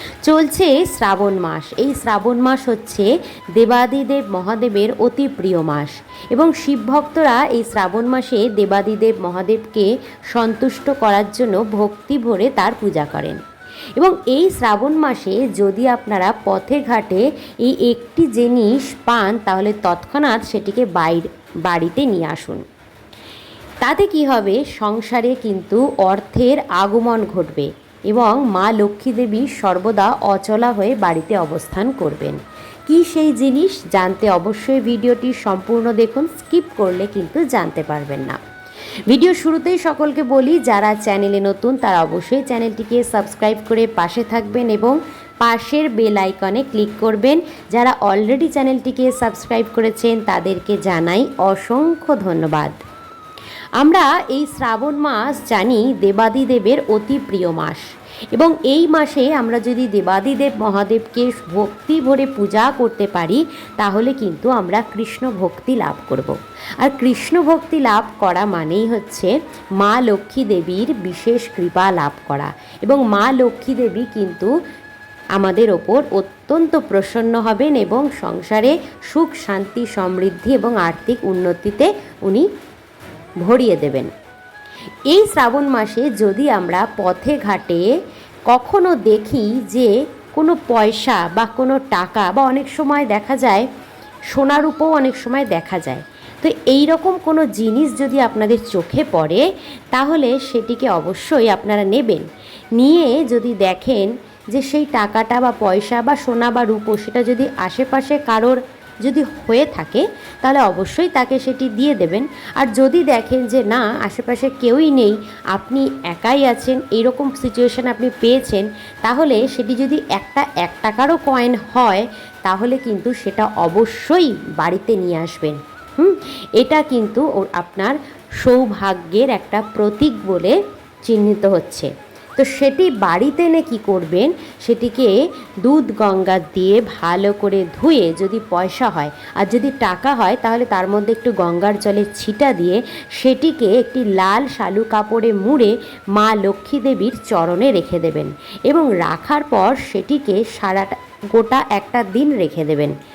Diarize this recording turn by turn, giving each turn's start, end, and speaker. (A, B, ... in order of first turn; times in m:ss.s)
0:00.2-0:13.4 A
0:14.0-0:22.6 A
0:23.8-0:38.4 A
0:39.1-0:52.8 A
0:53.8-0:57.8 A
0:58.3-1:14.5 A
1:15.4-1:22.4 A
1:23.4-1:24.1 A
1:25.1-1:27.8 A
1:28.5-1:33.6 A
1:34.3-1:42.2 A
1:42.8-2:10.6 A
2:11.1-2:15.1 A
2:15.6-2:32.9 A